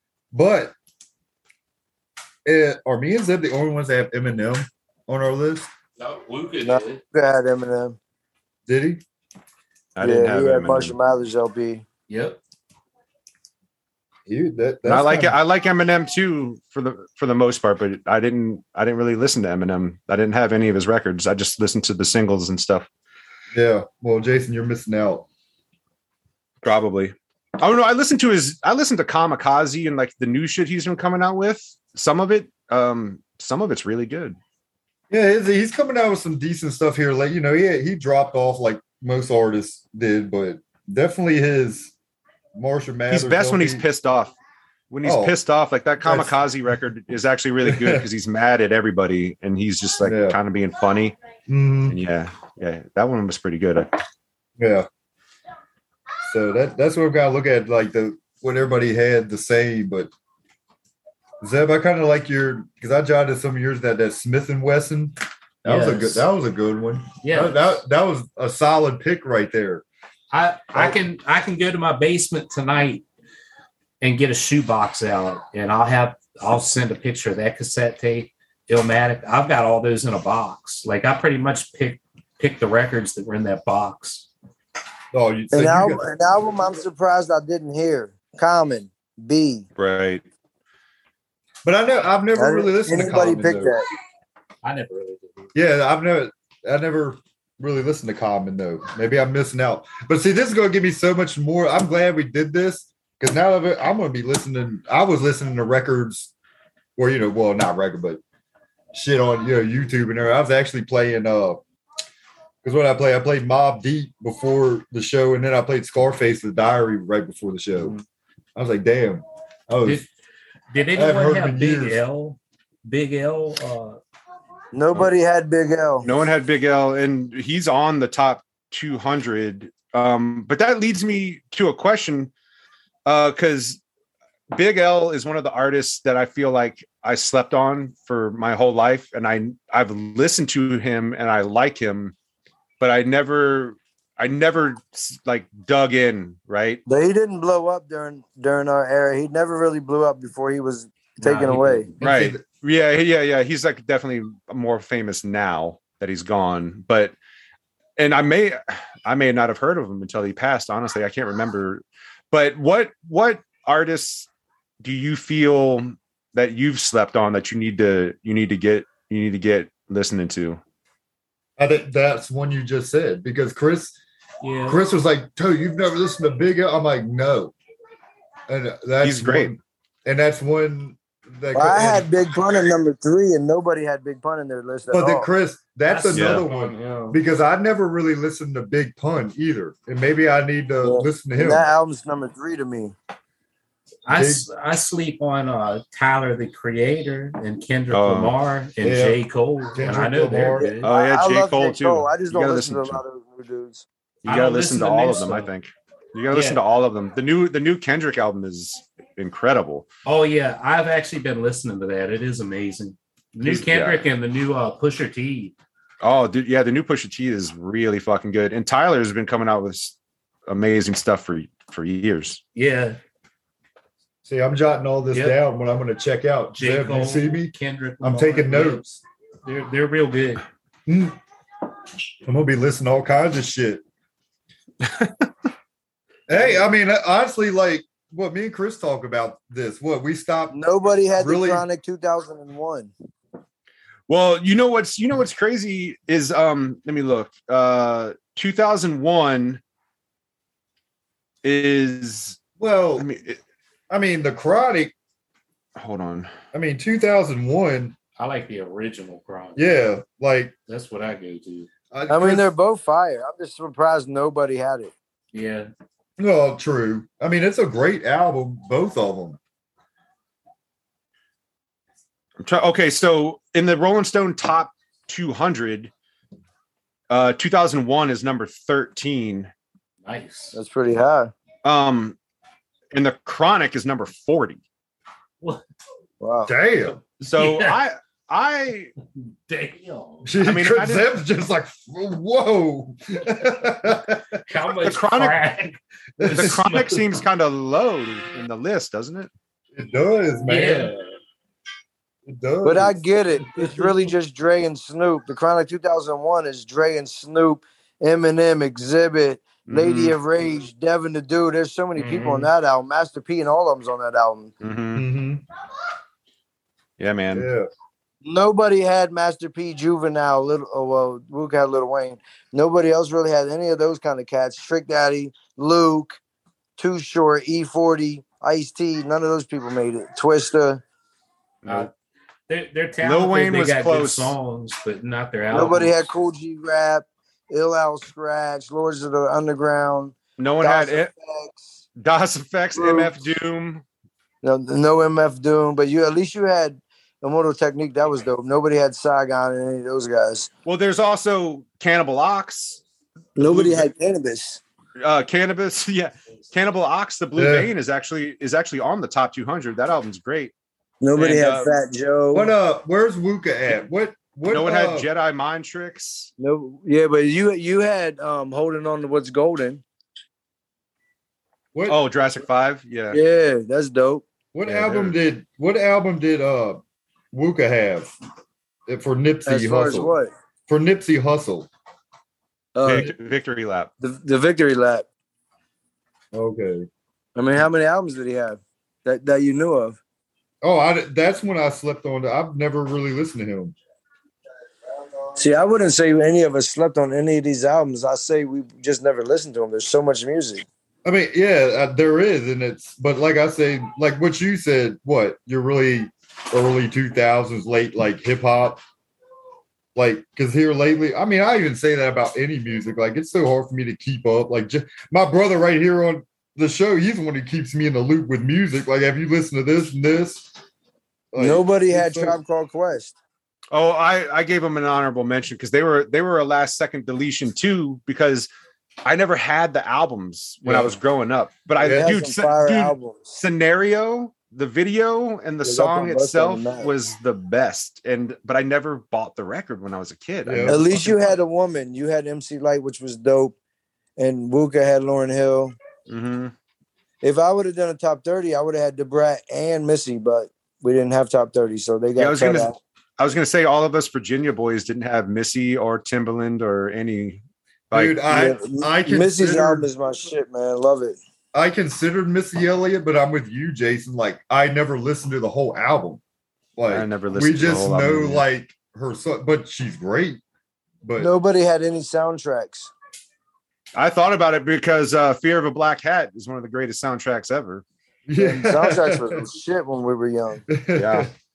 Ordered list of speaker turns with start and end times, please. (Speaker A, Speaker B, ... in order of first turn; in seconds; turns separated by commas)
Speaker A: 0.3-0.7, Speaker A: 2.4-5.7, Speaker B: 6.0-7.0, Speaker C: 6.6-8.0, Speaker A: 8.7-9.0, Speaker D: 9.9-10.9, Speaker C: 10.0-11.8, Speaker B: 12.1-12.4, Speaker A: 14.3-15.3, Speaker D: 14.8-22.9, Speaker A: 23.5-25.2, Speaker D: 26.6-34.4, Speaker A: 35.1-41.9, Speaker A: 42.5-43.8, Speaker D: 43.1-44.3, Speaker D: 44.9-51.1, Speaker A: 45.0-45.4, Speaker A: 46.0-46.4, Speaker A: 47.6-48.1, Speaker A: 50.0-50.4, Speaker A: 51.5-52.0, Speaker D: 51.9-53.9, Speaker A: 54.6-54.9, Speaker A: 56.3-60.1, Speaker A: 61.4-69.8, Speaker B: 65.6-66.2, Speaker B: 67.2-67.6, Speaker B: 70.3-73.0, Speaker A: 70.7-71.0, Speaker B: 74.0-84.3, Speaker A: 85.1-86.0, Speaker C: 85.5-89.7, Speaker D: 89.8-90.2, Speaker A: 91.6-93.7, Speaker C: 92.3-93.8, Speaker B: 94.6-95.5, Speaker A: 95.5-106.3, Speaker A: 107.0-108.2, Speaker A: 108.9-111.6, Speaker A: 112.6-118.0, Speaker A: 118.5-120.0, Speaker B: 120.7-124.0, Speaker A: 120.9-122.0, Speaker C: 124.7-126.1, Speaker D: 126.0-132.3, Speaker D: 133.1-133.8, Speaker D: 134.5-142.1, Speaker D: 142.8-146.8, Speaker C: 146.9-151.9, Speaker B: 151.2-152.0, Speaker A: 152.0-152.4, Speaker D: 152.0-157.1, Speaker D: 158.0-164.3, Speaker D: 164.8-170.6, Speaker A: 171.6-173.9, Speaker B: 174.4-174.8, Speaker A: 174.7-177.5, Speaker A: 178.5-182.1, Speaker D: 179.0-179.5, Speaker C: 181.5-185.3, Speaker A: 184.9-191.6, Speaker B: 185.9-187.2, Speaker D: 186.1-186.4, Speaker C: 190.8-192.9, Speaker B: 194.1-200.9, Speaker A: 194.1-194.4, Speaker D: 197.9-198.3, Speaker A: 198.8-199.2, Speaker A: 199.7-200.7, Speaker C: 200.6-203.8, Speaker D: 200.8-203.0, Speaker B: 204.2-205.5, Speaker D: 204.2-209.8, Speaker B: 206.3-206.6, Speaker B: 210.0-215.5, Speaker D: 213.4-214.0, Speaker D: 216.0-219.9, Speaker D: 220.5-222.4, Speaker B: 222.5-223.0, Speaker A: 224.2-228.8, Speaker B: 225.1-225.4, Speaker B: 226.6-230.4, Speaker A: 230.9-231.2, Speaker A: 232.2-233.8, Speaker D: 234.8-235.2, Speaker A: 236.3-240.6, Speaker C: 240.5-242.9, Speaker A: 241.1-241.6, Speaker D: 244.1-249.6, Speaker D: 251.4-252.4, Speaker A: 252.6-253.1, Speaker D: 253.0-253.4, Speaker A: 253.9-254.9, Speaker D: 255.8-256.3, Speaker A: 256.5-257.9, Speaker B: 258.2-259.6, Speaker A: 259.6-260.5, Speaker B: 260.7-261.7, Speaker A: 261.9-262.5, Speaker C: 262.1-264.9, Speaker B: 265.3-265.7, Speaker A: 266.2-269.4, Speaker D: 272.4-275.9, Speaker D: 277.1-279.5, Speaker B: 280.0-280.6, Speaker C: 280.5-281.3, Speaker D: 281.6-282.1, Speaker D: 282.9-284.6, Speaker C: 286.2-286.5, Speaker A: 286.4-286.9, Speaker D: 287.2-288.9, Speaker B: 287.3-287.8, Speaker B: 289.5-290.3, Speaker A: 290.2-294.2, Speaker D: 290.4-291.1, Speaker B: 294.4-297.0, Speaker D: 294.8-295.4, Speaker A: 296.2-296.5, Speaker D: 296.3-299.3, Speaker A: 299.7-301.0, Speaker B: 300.4-301.0, Speaker A: 302.2-302.9, Speaker C: 302.6-314.5, Speaker D: 309.6-310.1, Speaker B: 311.9-312.5, Speaker D: 314.6-315.0, Speaker A: 314.9-315.4, Speaker D: 317.0-317.5, Speaker A: 317.3-317.7, Speaker C: 318.2-326.2, Speaker C: 326.8-330.8, Speaker D: 331.6-331.9, Speaker B: 332.5-336.0, Speaker D: 333.0-334.4, Speaker C: 335.5-341.8, Speaker D: 340.4-341.1, Speaker D: 342.0-343.8, Speaker C: 342.7-343.2, Speaker C: 344.4-350.5, Speaker D: 350.6-352.8, Speaker C: 353.4-354.6, Speaker D: 353.4-353.9, Speaker D: 355.0-360.5, Speaker A: 357.4-357.7, Speaker C: 361.0-362.5, Speaker D: 361.1-361.7, Speaker A: 362.3-365.1, Speaker D: 364.5-366.3, Speaker C: 366.4-369.8, Speaker A: 371.7-372.0, Speaker D: 371.9-373.2, Speaker C: 373.1-374.2, Speaker A: 374.5-376.8, Speaker D: 374.6-375.2, Speaker A: 377.3-378.1, Speaker A: 378.9-380.1, Speaker C: 379.4-380.3, Speaker A: 380.7-381.7, Speaker C: 382.7-383.1, Speaker D: 382.8-383.9, Speaker C: 384.0-385.1, Speaker A: 386.3-386.9, Speaker C: 387.4-390.0, Speaker A: 390.6-393.8, Speaker C: 395.3-400.6, Speaker A: 401.0-408.8, Speaker A: 409.9-420.5, Speaker A: 421.3-422.4, Speaker C: 421.4-423.1, Speaker D: 423.7-428.5, Speaker D: 429.0-441.4, Speaker A: 430.6-430.9, Speaker C: 431.8-433.3, Speaker A: 431.8-432.1, Speaker C: 435.6-436.9, Speaker A: 440.4-440.8, Speaker C: 440.6-443.5, Speaker C: 444.2-445.8, Speaker D: 446.1-446.5, Speaker C: 447.2-452.8, Speaker D: 452.2-458.2, Speaker A: 457.9-459.9, Speaker C: 458.3-461.2, Speaker A: 461.5-466.2, Speaker A: 466.8-470.4, Speaker D: 466.9-468.4, Speaker A: 471.0-471.3, Speaker C: 471.2-472.9, Speaker D: 473.9-477.8, Speaker A: 478.3-479.5, Speaker C: 478.4-480.6, Speaker A: 480.7-481.3, Speaker D: 480.9-481.3